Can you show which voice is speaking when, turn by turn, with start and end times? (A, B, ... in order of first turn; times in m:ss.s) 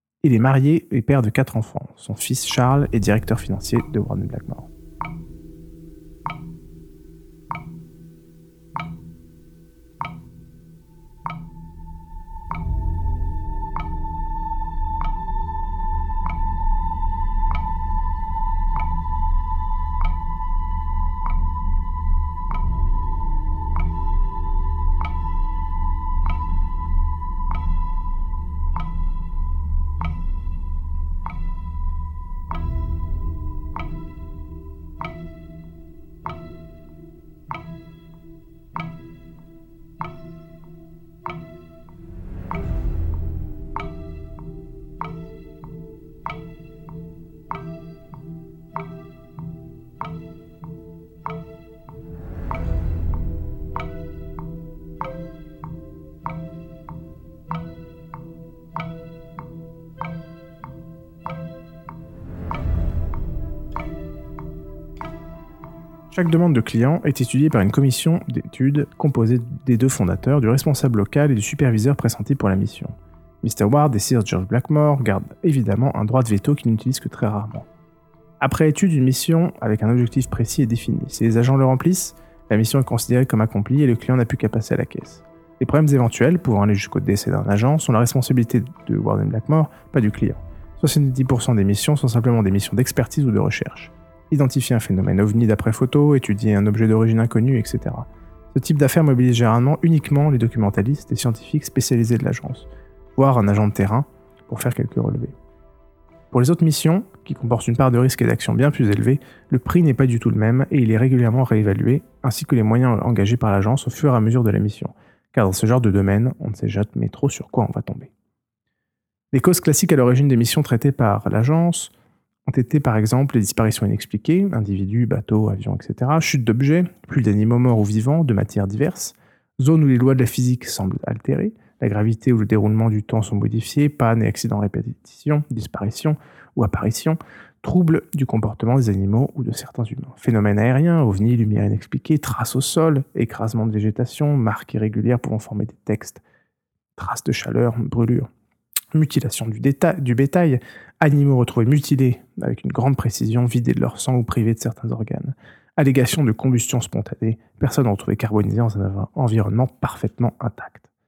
0:00.2-0:04.7 A
1:06.1-1:17.7 A
1:18.4-1:45.4 A
1:46.3-1:58.1 A
1:59.3-2:01.9 A
2:02.5-2:26.2 A
2:27.0-2:28.3 A
2:28.9-2:40.9 A